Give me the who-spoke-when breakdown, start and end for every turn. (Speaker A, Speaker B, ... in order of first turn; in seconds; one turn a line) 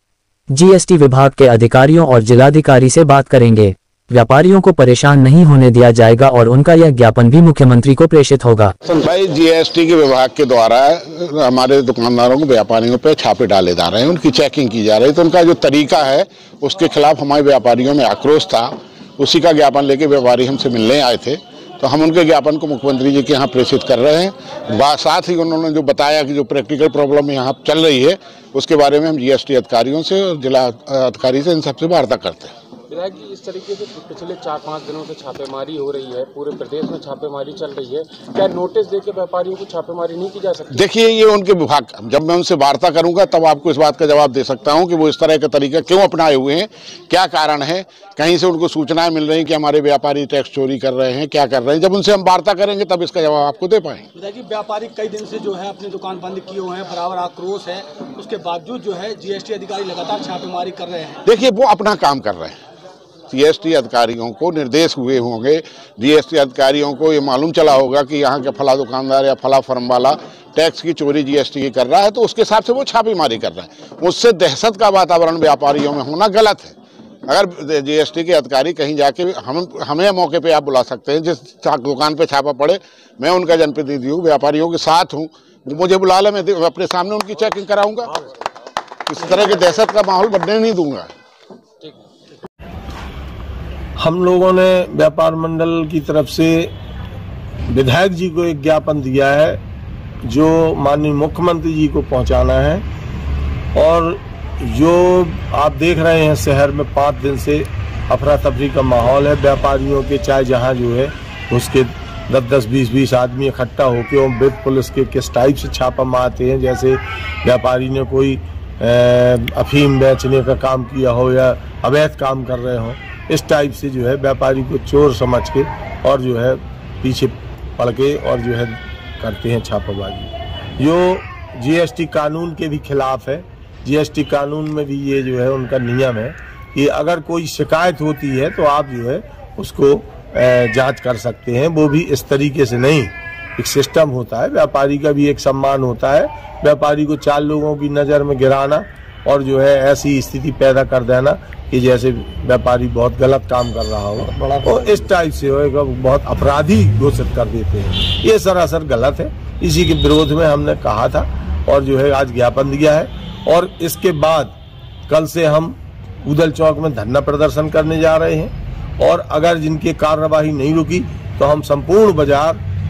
Speaker A: 0.5-8.7
Speaker B: 8.9-32.5
Speaker C: 32.9-40.9
Speaker B: 40.7-54.1
Speaker D: 54.2-61.2
Speaker B: 61.3-62.6
Speaker B: 63.3-76.8
Speaker B: 77.3-88.2
Speaker B: 89.1-91.1
Speaker E: 94.0-96.7
Speaker E: 97.7-99.6
Speaker E: 100.2-102.8
Speaker E: 103.8-164.6
Speaker E: 165.1-172.6